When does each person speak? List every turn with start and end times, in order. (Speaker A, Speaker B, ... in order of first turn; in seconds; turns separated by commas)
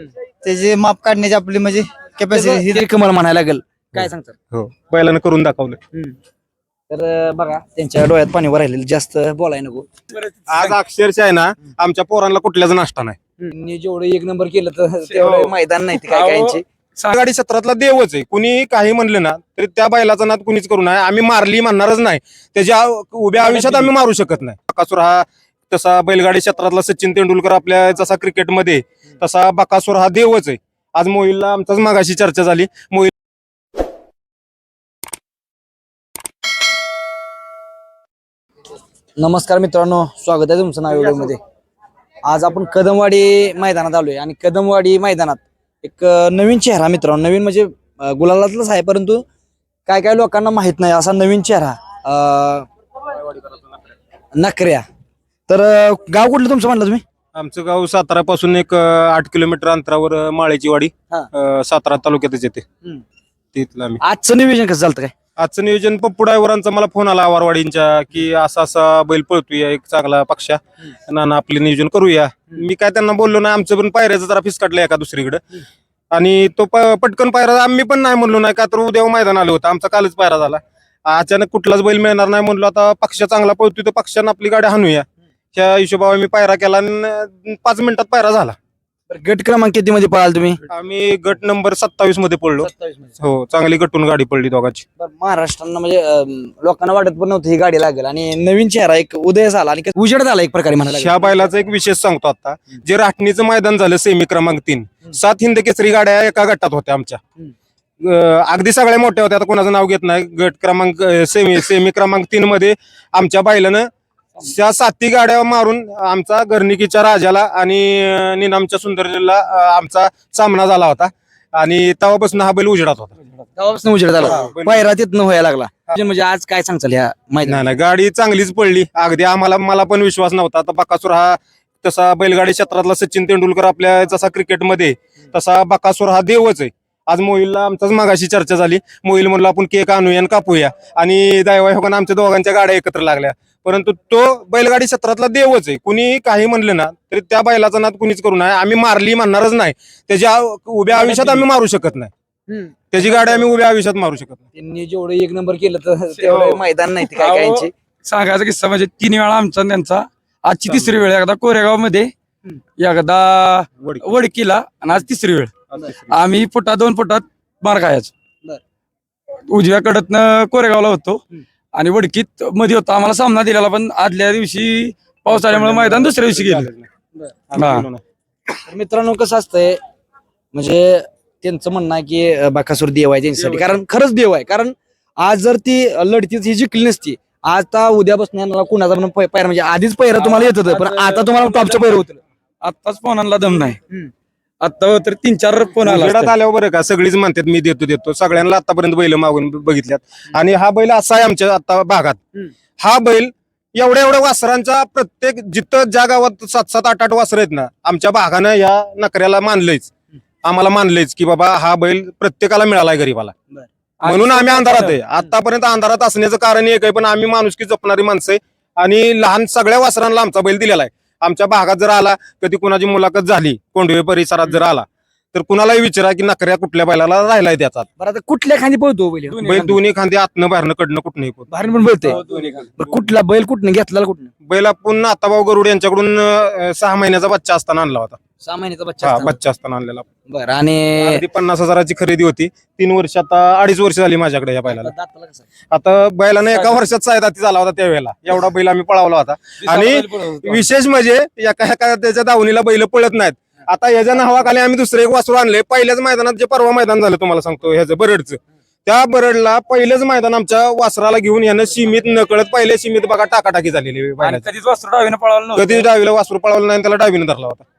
Speaker A: 0.4-2.9, Speaker B: 2.3-4.4, Speaker C: 3.9-5.8, Speaker B: 6.9-9.9, Speaker D: 10.1-10.7, Speaker C: 10.5-13.2, Speaker B: 13.4-16.6, Speaker C: 15.2-15.5, Speaker D: 15.9-17.1, Speaker C: 17.1-33.1, Speaker B: 39.2-41.4, Speaker B: 42.2-49.2, Speaker B: 49.9-52.7, Speaker B: 54.3-54.8, Speaker B: 55.5-57.0, Speaker C: 57.3-62.6, Speaker C: 63.5-64.0, Speaker B: 64.0-65.1, Speaker C: 65.4-75.4, Speaker C: 76.1-88.5, Speaker B: 89.1-90.6, Speaker C: 90.7-92.7, Speaker B: 92.6-93.2, Speaker C: 93.2-94.8, Speaker B: 95.0-101.3, Speaker C: 100.8-107.2, Speaker C: 108.0-123.1, Speaker B: 123.6-127.7, Speaker C: 124.2-124.8, Speaker C: 127.4-152.1, Speaker B: 150.9-151.4, Speaker B: 152.5-153.3, Speaker C: 152.9-154.4, Speaker B: 154.5-157.7, Speaker D: 156.2-162.1, Speaker C: 160.7-160.9, Speaker D: 162.8-165.5, Speaker C: 163.8-164.2, Speaker C: 165.7-166.2, Speaker D: 166.1-168.1, Speaker D: 169.5-171.2, Speaker D: 171.7-176.7, Speaker C: 175.3-176.9, Speaker C: 177.5-178.0, Speaker D: 177.6-177.8, Speaker B: 178.7-179.8, Speaker B: 180.5-192.2, Speaker D: 183.4-183.8, Speaker D: 190.1-191.9, Speaker D: 192.6-193.8, Speaker D: 194.6-196.3, Speaker C: 195.8-202.2, Speaker C: 202.8-209.9, Speaker C: 210.4-213.3, Speaker D: 214.0-215.0, Speaker C: 214.0-227.9, Speaker B: 228.0-229.5, Speaker D: 229.4-229.8, Speaker C: 229.4-231.5, Speaker B: 231.5-232.2, Speaker D: 232.1-232.7, Speaker C: 232.1-232.8, Speaker B: 232.8-234.3, Speaker C: 234.4-238.2, Speaker B: 238.4-239.4, Speaker C: 239.0-240.0, Speaker B: 240.3-241.2, Speaker C: 241.0-244.9, Speaker B: 244.7-245.4, Speaker C: 245.7-264.5, Speaker D: 246.5-246.9, Speaker D: 249.6-250.6, Speaker D: 264.2-265.9, Speaker C: 265.5-267.6